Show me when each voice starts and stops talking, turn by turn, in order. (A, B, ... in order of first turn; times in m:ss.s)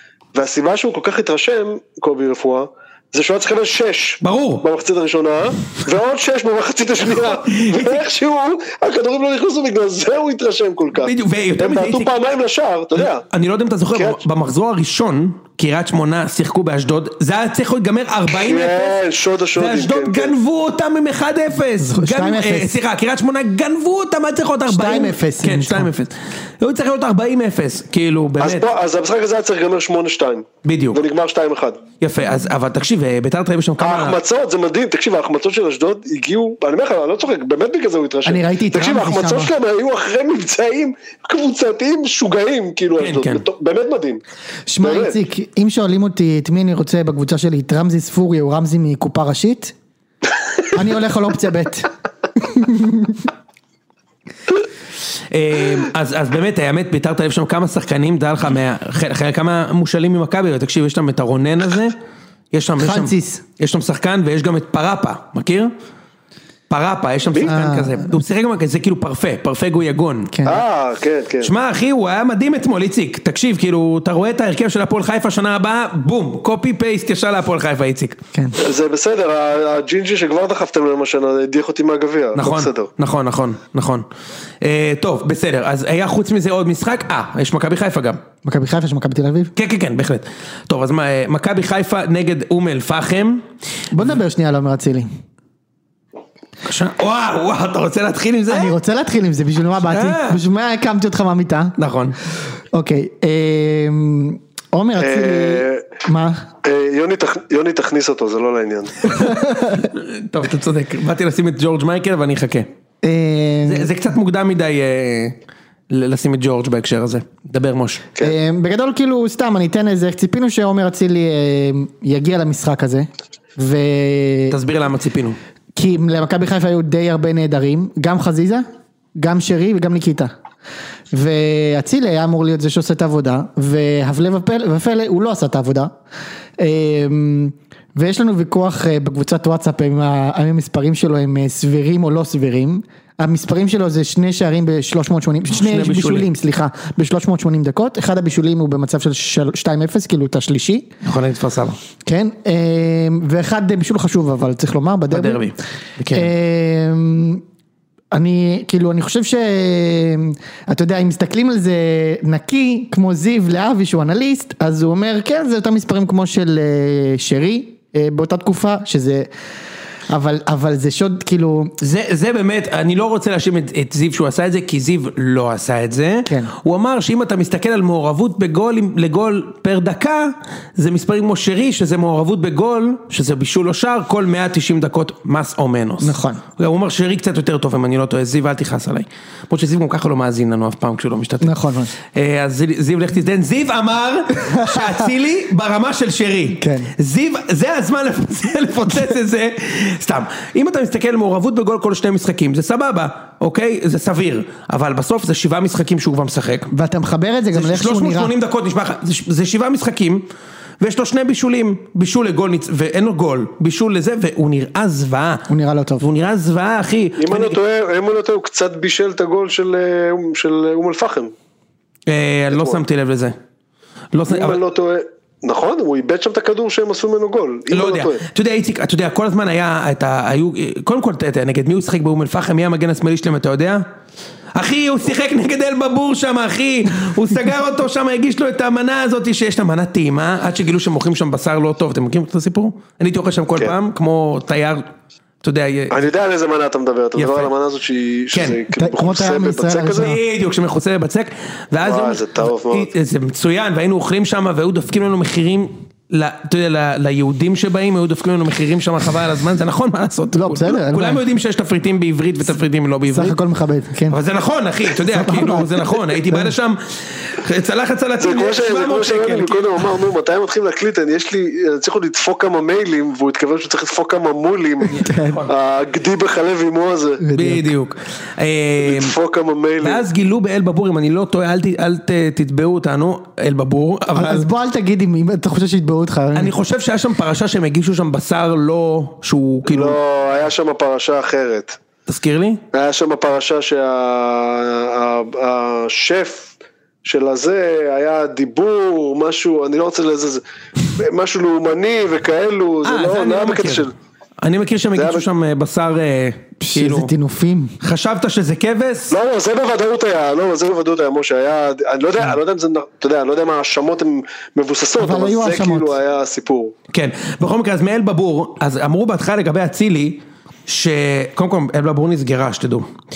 0:00.3-0:13.2 A
0:04.2-0:04.6 B
0:07.2-0:08.0 B
0:11.0-0:12.1 B
0:13.0-0:19.0 B
0:14.0-0:14.2 A
0:18.3-0:20.4 A
0:19.6-0:28.7 B
0:21.8-0:22.7 C
0:24.7-0:25.9 C
0:28.4-0:31.8 A
0:30.6-0:31.0 B
0:32.0-0:34.2 B
0:33.8-0:44.2 A
0:38.2-0:39.5 C
0:43.0-0:43.4 B
0:44.7-0:49.7 C
0:44.8-0:45.2 A
0:50.7-0:53.3 C
0:55.3-1:02.0 B
1:02.5-1:05.7 B
1:02.8-1:03.4 C
1:06.7-1:10.4 B
1:07.4-1:08.0 C
1:10.3-1:10.6 C
1:10.4-1:11.5 A
1:11.4-1:18.2 B
1:18.6-1:22.9 A
1:22.4-1:24.0 B
1:24.6-1:28.2 B
1:28.4-1:29.5 C
1:29.6-1:33.4 B
1:33.9-1:35.1 C
1:36.6-1:38.8 B
1:38.5-1:41.8 C
1:39.9-1:40.4 B
1:41.8-1:42.2 B
1:42.7-1:46.4 C
1:45.0-1:45.9 A
1:46.6-1:49.3 A
1:49.1-1:49.9 C
1:49.3-1:52.7 B
1:53.0-1:53.9 C
1:53.6-1:55.4 B
1:55.9-1:58.1 B
1:58.2-2:04.6 C
2:04.5-2:05.4 B
2:05.8-2:08.6 C
2:09.2-2:10.3 C
2:11.1-2:15.9 C
2:16.6-2:30.9 C
2:25.5-2:26.3 B
2:31.0-2:31.8 B
2:32.0-2:35.5 C
2:35.1-2:36.3 B
2:36.1-2:37.4 C
2:38.1-2:49.3 C
2:50.1-2:51.7 C
2:51.8-3:26.7 B
2:56.3-2:56.5 C
3:06.0-3:06.4 C
3:11.4-3:11.9 C
3:14.5-3:14.9 C
3:16.6-3:16.9 C
3:26.7-3:28.3 C
3:27.5-3:30.3 B
3:30.8-3:35.5 B
3:35.5-3:36.1 C
3:36.0-3:37.6 B
3:37.2-3:41.3 A
3:42.1-3:43.4 B
3:42.5-3:42.8 A
3:44.1-3:44.6 B
3:44.3-3:48.2 A
3:47.7-3:53.8 B
3:54.6-4:04.8 B
4:05.4-4:06.1 B
4:05.9-4:10.2 A
4:07.2-4:07.5 B
4:08.3-4:08.6 B
4:08.7-4:10.2 C
4:10.0-4:23.4 B
4:11.8-4:12.9 A
4:20.3-4:21.2 C
4:23.1-4:24.2 C
4:24.1-4:29.9 B
4:25.1-4:26.5 C
4:28.2-4:34.9 A
4:34.9-4:35.5 B
4:35.0-4:35.4 C
4:35.5-4:37.2 A
4:37.2-4:37.7 C
4:37.3-4:39.2 B
4:38.8-4:40.0 A
4:39.8-4:44.5 B
4:44.1-4:46.5 C
4:46.3-4:50.0 B
4:49.7-4:51.8 A
4:52.1-4:52.6 B
4:52.7-4:56.5 A
4:57.0-5:03.9 A
5:02.8-5:03.9 B
5:04.4-5:07.1 B
5:05.0-5:05.3 A
5:06.6-5:07.8 C
5:07.8-5:09.2 B
5:09.1-5:16.7 A
5:15.0-5:16.0 C
5:16.9-5:22.9 B